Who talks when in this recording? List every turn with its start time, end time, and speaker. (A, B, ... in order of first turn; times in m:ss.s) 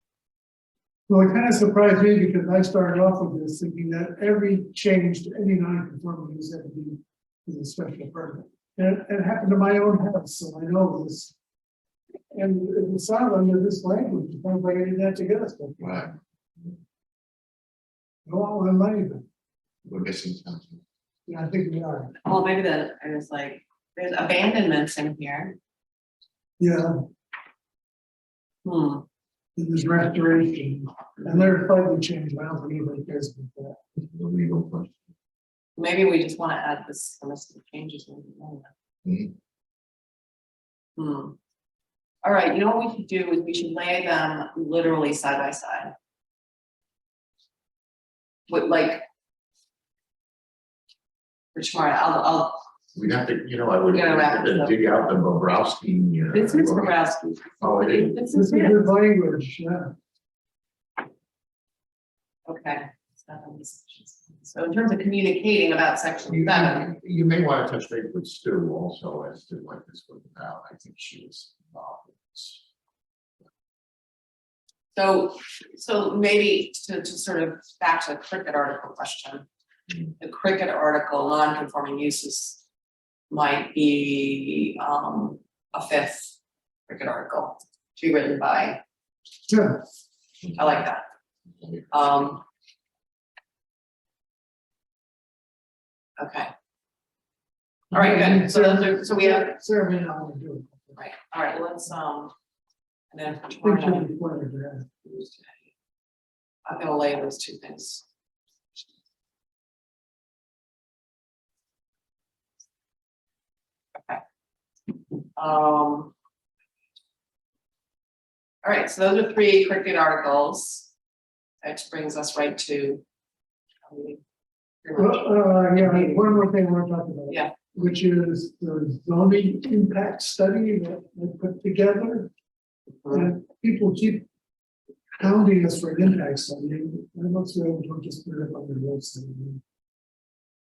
0:01.1-0:11.4 A
0:12.3-0:16.1 A
0:15.8-0:16.1 B
0:18.3-0:19.2 A
0:19.8-0:20.8 B
0:21.3-0:22.2 A
0:22.2-0:25.6 C
0:26.6-0:27.0 A
0:28.6-0:29.0 C
0:29.6-0:33.8 A
0:31.2-0:31.5 C
0:34.0-0:35.0 B
0:35.8-0:38.7 C
0:39.0-0:39.3 B
0:41.0-0:41.4 C
0:42.2-0:45.9 C
0:48.5-0:49.0 C
0:51.6-0:52.6 C
0:53.0-0:57.0 B
0:53.9-0:54.8 C
0:56.3-0:58.9 C
0:57.6-0:58.2 B
0:58.3-0:59.9 A
1:02.5-1:06.9 C
1:06.3-1:12.6 B
1:15.0-1:19.5 C
1:20.2-1:22.6 C
1:23.3-1:26.4 C
1:26.9-1:28.8 C
1:29.5-1:29.8 A
1:30.6-1:31.0 C
1:31.9-1:32.4 C
1:36.2-1:36.5 C
1:37.9-1:40.9 A
1:37.9-1:39.6 C
1:41.0-1:42.3 C
1:43.1-1:44.1 C
1:43.6-1:44.9 A
1:45.0-1:45.6 C
1:46.7-1:48.0 C
1:54.0-1:54.2 C
1:55.4-1:56.1 C
1:58.6-2:00.9 C
2:01.6-2:03.0 C
2:03.9-2:04.2 C
2:04.8-2:06.4 C
2:05.0-2:12.3 A
2:13.0-2:13.3 C
2:13.1-2:14.3 A
2:15.2-2:19.6 A